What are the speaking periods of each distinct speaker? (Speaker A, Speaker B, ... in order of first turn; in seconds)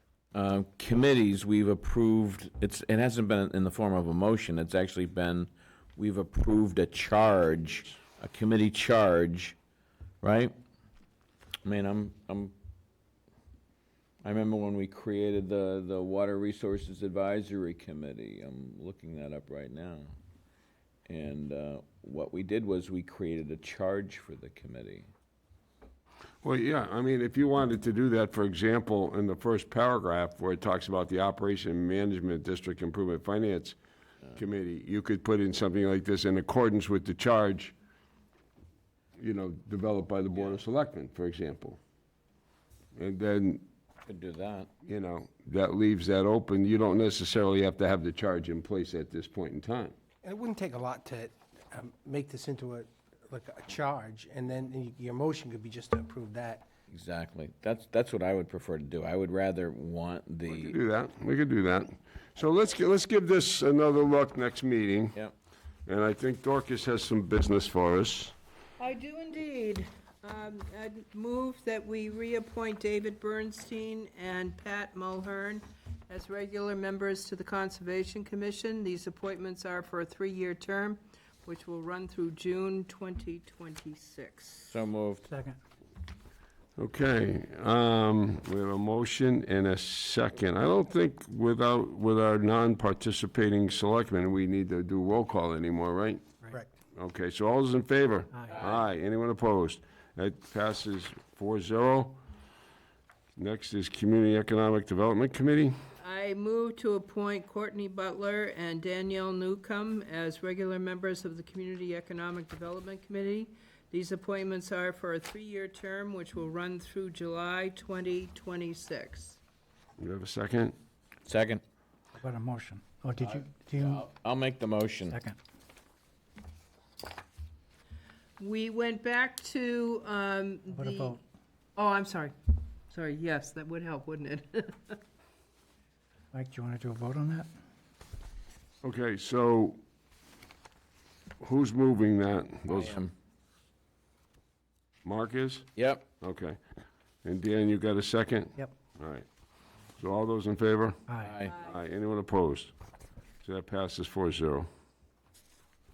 Speaker A: 0.3-9.6, 10.2-10.5, 11.6-12.6, 14.2-20.1, 21.1-25.1, 44.1-44.7, 56.9-60.8, 84.7-85.3, 121.3-121.6, 123.2-125.2, 142.7-143.1, 145.8-146.1, 151.2-151.5
Speaker B: 26.4-33.8, 34.4-37.8, 39.2-41.8, 43.0-43.6, 44.9-50.0, 60.5-65.2, 65.9-68.3, 86.8-96.2, 97.0-102.2, 103.4-105.7, 120.0-120.7, 138.8-139.8, 141.4-143.0, 145.1-146.6, 147.2-149.3, 150.0-152.7, 153.4-154.7
Speaker C: 50.2-56.7
Speaker D: 68.8-84.8, 106.0-119.4, 128.4-131.2, 131.8-135.0
Speaker E: 85.3-85.6, 122.2-124.1, 125.1-125.4, 130.7-131.2, 136.3-137.5, 151.1-151.3